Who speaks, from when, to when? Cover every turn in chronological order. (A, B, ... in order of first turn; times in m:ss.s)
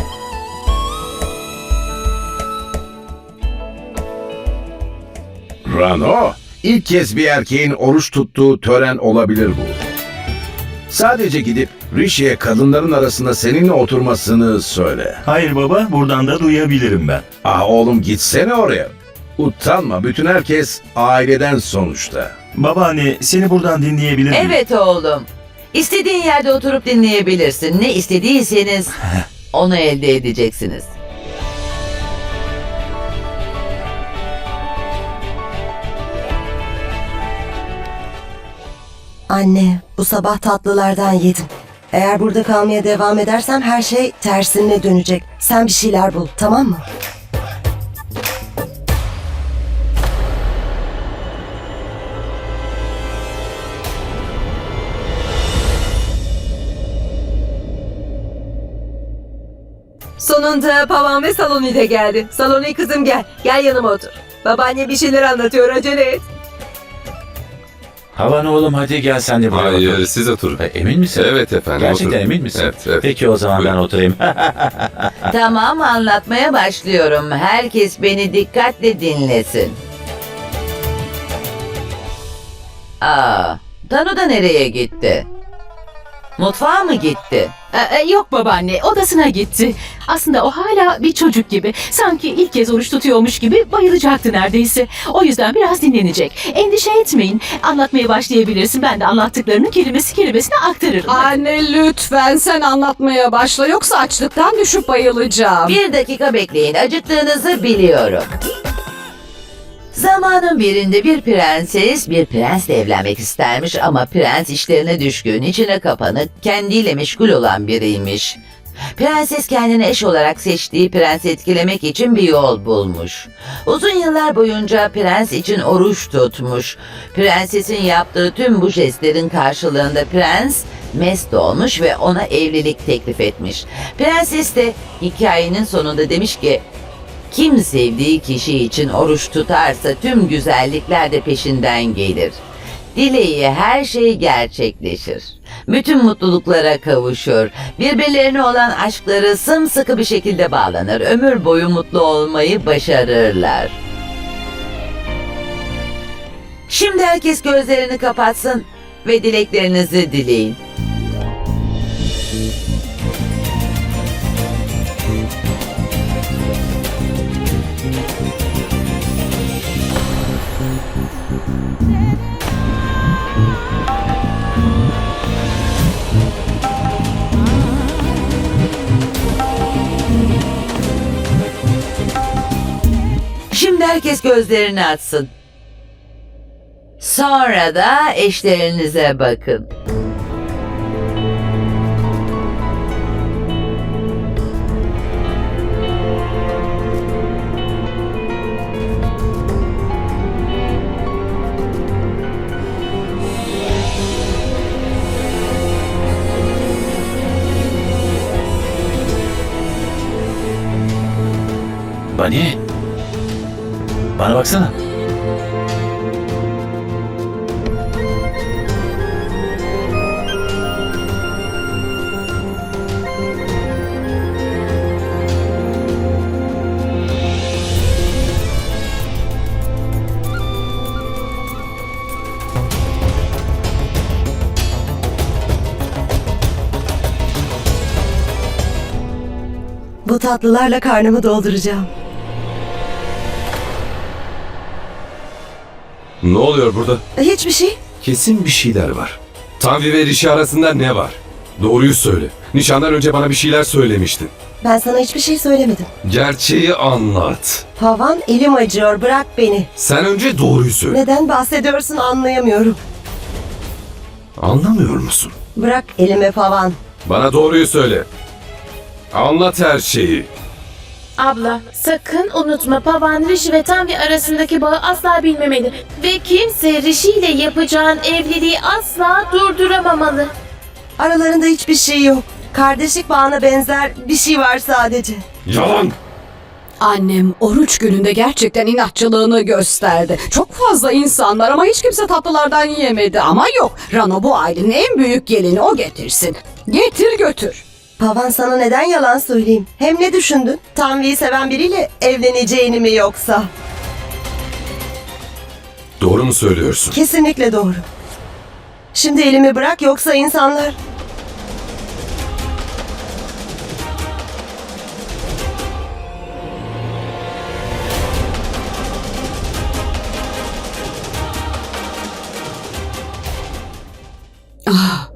0:05.6-0:09.8 A
0:10.9-0:15.2 A
0:15.2-0:17.2 B
0:17.4-0:22.3 A
0:22.5-0:24.6 B
0:24.3-0:28.9 C
0:29.5-0:30.9 C
0:39.3-0:46.8 D
1:00.2-1:06.2 E
1:08.1-1:10.0 F
1:09.5-1:13.8 G
1:10.6-1:15.0 F
1:15.3-1:19.8 C
1:23.0-1:25.2 C
1:26.4-1:27.5 C
1:27.7-1:41.4 H
1:41.0-1:45.8 I
1:45.6-1:48.3 C
1:49.9-1:58.4 C
1:59.0-2:16.6 C
2:17.3-2:22.4 C
2:22.9-2:33.8 C
2:36.7-2:40.6 C
3:03.5-3:05.3 C
3:07.0-3:09.7 C
3:32.1-3:32.6 F
3:34.2-3:34.7 F
4:00.0-4:01.9 D
4:06.2-4:07.0 G
4:07.2-4:07.8 D
4:08.0-4:14.3 G
4:14.6-4:15.9 D
4:16.0-4:17.6 G
4:17.8-4:19.7 D
4:19.8-4:21.0 G
4:20.9-4:22.8 D
4:24.4-4:25.3 G
4:25.6-4:26.8 D
4:27.0-4:28.1 G
4:29.1-4:30.3 G
4:31.2-4:40.3 J
4:41.0-4:45.2 D
4:45.4-4:46.0 G
4:46.8-4:57.6 I
4:58.0-5:03.5 D
5:06.0-5:07.0 G
5:06.9-5:07.8 D
5:08.9-5:10.8 D
5:24.7-5:25.1 I